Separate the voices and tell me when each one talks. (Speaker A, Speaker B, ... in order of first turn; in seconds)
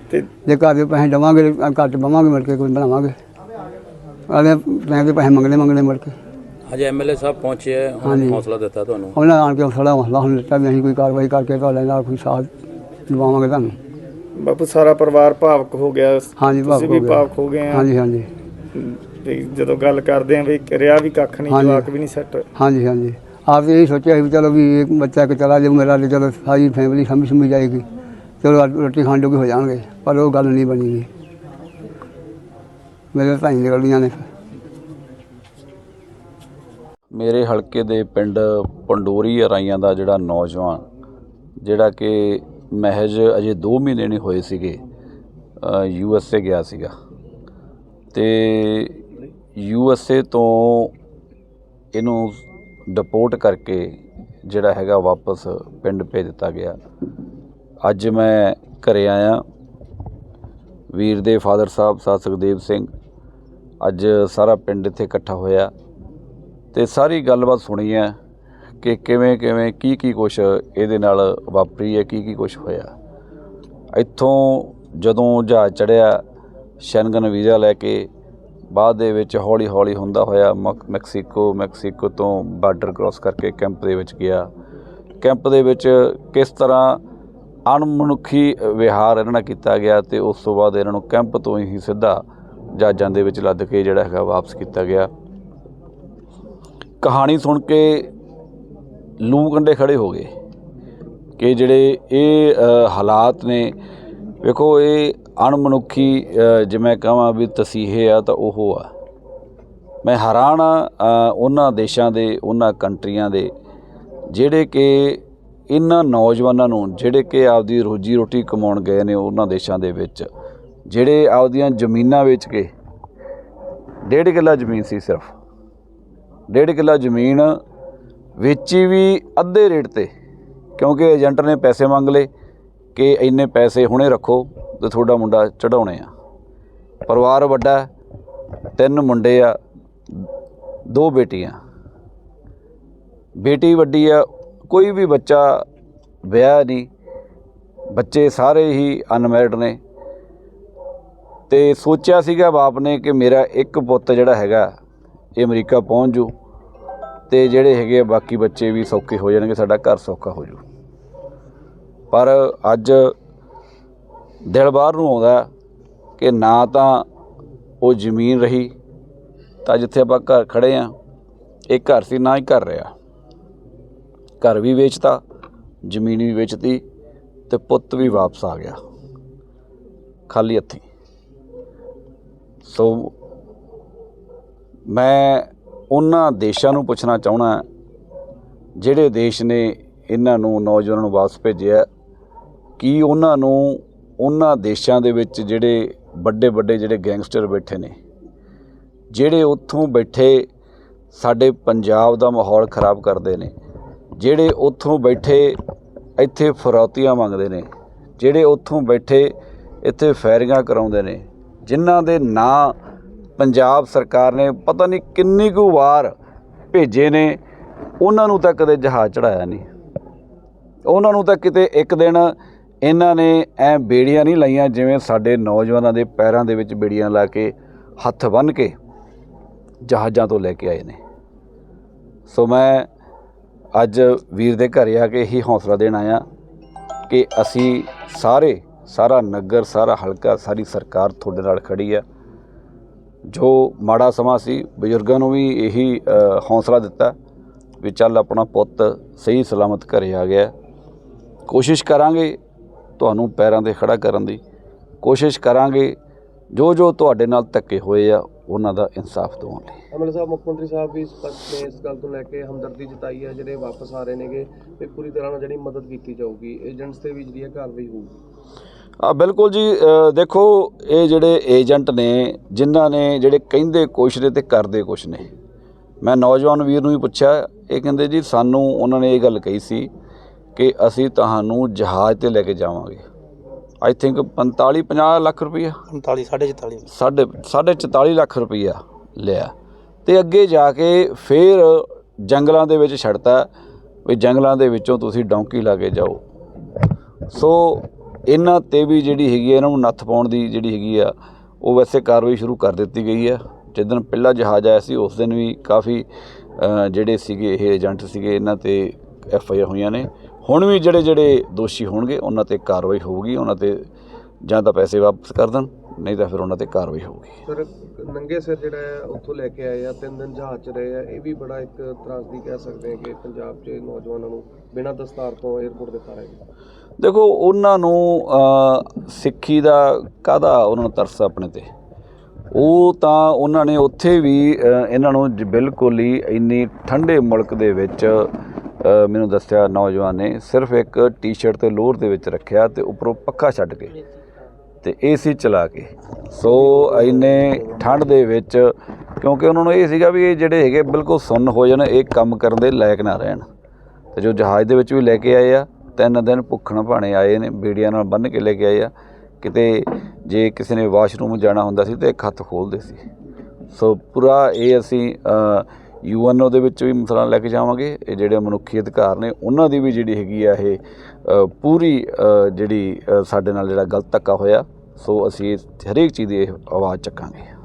Speaker A: 0.4-3.1, 4.3-6.1, 8.0-8.4, 9.1-12.5, 13.1-13.8, 16.4-18.3, 21.5-21.9, 22.6-27.9, 28.4-31.1, 33.1-34.2
Speaker B: 6.7-9.1, 286.1-286.4
Speaker C: 14.4-17.9, 18.7-22.5
Speaker D: 37.1-40.8, 41.6-44.8, 45.6-46.9, 48.1-50.9, 51.9-56.8, 57.8-59.4, 60.9-62.9, 63.8-65.7, 66.7-68.1, 68.8-72.9, 73.9-76.2, 76.8-78.1, 78.7-84.5, 85.2-87.0, 87.7-92.2, 92.7-95.1, 97.0-98.1, 99.2-100.3, 101.4-103.8, 104.4-108.9, 110.0-113.5, 114.3-120.3, 120.9-122.7, 124.0-125.3, 126.5-127.5, 128.4-130.1, 130.8-132.3, 132.9-136.1, 137.1-137.9, 138.8-139.6, 140.9-141.6, 143.4-145.6, 146.3-146.9, 147.9-149.8, 151.5-154.7, 155.4-156.3, 157.3-160.6, 162.1-163.1, 164.4-165.5, 166.2-167.0, 167.8-168.7, 169.6-170.9, 171.7-172.9, 174.4-175.2, 175.8-176.8, 177.5-178.8, 180.3-180.8, 182.6-183.1, 184.9-187.6, 188.8-191.9, 192.8-197.9, 199.1-200.4, 201.1-203.5, 204.2-205.6, 206.2-212.8, 213.4-216.1, 216.7-217.4, 218.0-219.7, 220.8-228.7, 229.8-231.0, 232.3-232.9, 233.7-236.2, 237.1-242.0, 243.3-247.1, 247.8-250.5, 251.5-252.4, 253.0-254.4, 255.0-255.9, 256.5-259.8, 269.0-275.3, 276.0-279.9, 280.6-283.0, 283.8-285.8, 286.9-289.5, 290.1-293.5, 294.1-296.2, 297.3-306.1, 306.6-313.9, 314.4-317.4, 327.0-331.7, 332.5-338.3, 338.8-344.0, 344.8-353.4, 354.1-363.0, 363.7-377.5
Speaker E: 259.9-268.1, 317.4-326.4